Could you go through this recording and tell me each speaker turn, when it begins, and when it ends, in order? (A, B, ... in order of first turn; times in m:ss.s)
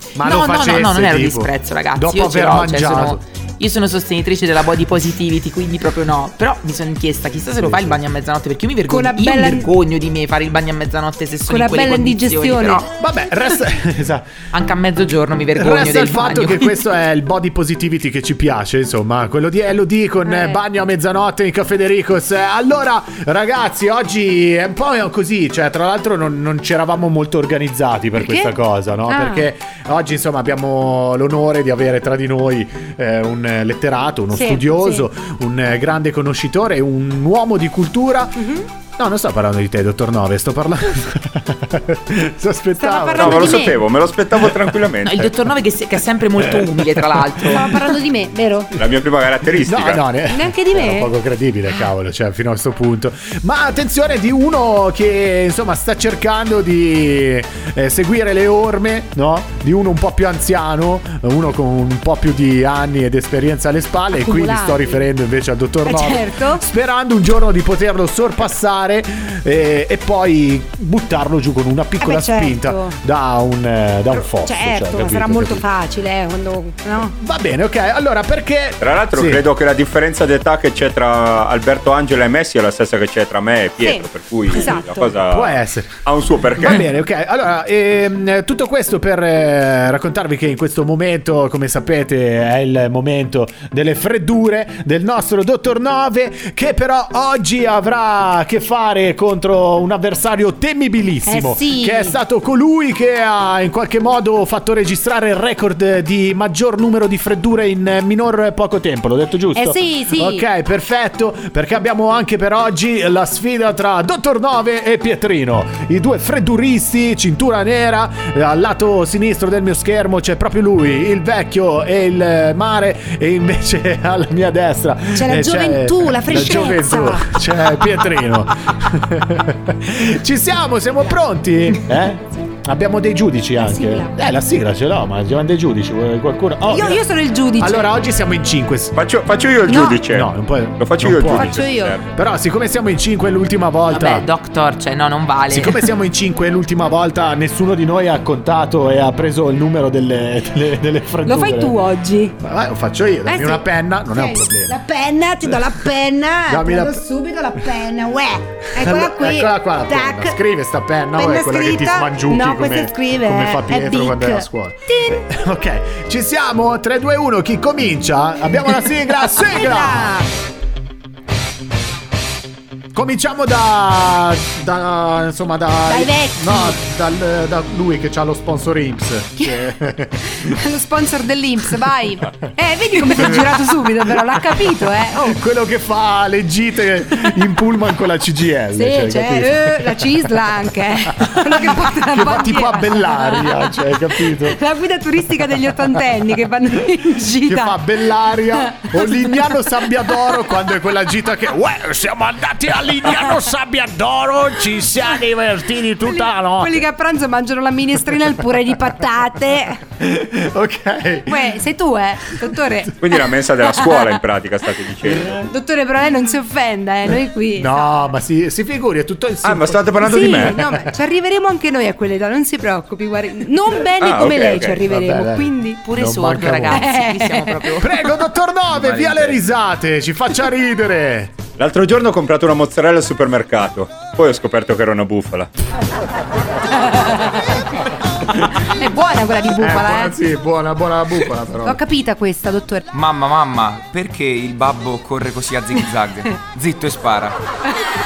0:00.2-0:03.2 A
0:00.2-0:12.9 B
0:07.6-0:08.0 A
0:08.9-0:09.7 C
0:11.5-0:12.9 C
0:13.0-0:14.3 A
0:14.5-0:16.8 B
0:15.6-0:44.8 A
0:20.2-0:20.6 C
0:28.2-0:28.6 C
0:29.1-0:29.5 C
0:34.3-0:35.1 C
0:38.4-0:38.7 C
0:42.8-0:43.8 C
0:43.2-0:45.3 D
0:45.0-0:47.7 B
0:46.4-0:47.8 A
0:47.5-0:48.7 C
0:48.8-0:50.0 D
0:49.5-1:15.6 A
0:50.3-0:51.1 C
1:04.1-1:05.1 C
1:05.8-1:06.6 C
1:12.0-1:13.0 C
1:14.2-1:17.1 C
1:17.0-1:19.4 A
1:18.8-1:26.9 D
1:23.8-1:25.1 C
1:25.2-2:17.0 A
1:41.3-1:42.2 C
1:49.6-1:50.4 C
2:05.2-2:07.3 C
2:13.6-2:14.1 C
2:16.7-2:17.9 C
2:17.6-2:19.0 A
2:19.0-2:22.1 D
2:19.7-2:20.0 C
2:20.0-2:21.6 A
2:21.3-2:22.0 C
2:22.1-2:24.3 A
2:23.9-2:25.8 B
2:25.5-2:31.8 A
2:31.2-2:32.4 C
2:32.4-2:34.8 A
2:33.3-2:40.4 C
2:36.4-2:37.0 A
2:38.7-2:50.2 A
2:41.2-2:45.2 C
2:49.3-2:50.3 C
2:52.9-3:00.6 A
2:55.9-2:56.8 C
3:00.3-3:05.4 C
3:03.0-3:10.6 A
3:08.8-3:17.8 C
3:11.1-3:14.6 A
3:17.4-3:26.9 A
3:18.5-3:20.5 C
3:26.0-3:29.8 C
3:30.0-3:31.6 A
3:31.3-3:33.0 C
3:32.4-3:32.9 A
3:33.0-3:35.4 D
3:33.6-3:34.2 C
3:35.0-3:35.5 A
3:35.4-3:37.9 C
3:37.6-3:40.9 A
3:39.4-3:40.6 D
3:40.0-3:45.8 C
3:44.0-3:44.8 D
3:44.8-3:46.9 A
3:45.8-3:48.0 B
3:46.6-3:47.8 C
3:47.8-3:51.4 A
3:48.8-3:49.3 E
3:51.6-3:55.5 D
3:56.9-3:57.4 C
3:58.5-4:00.2 C
3:59.6-4:01.8 A
4:01.6-4:02.9 C
4:02.9-4:07.4 E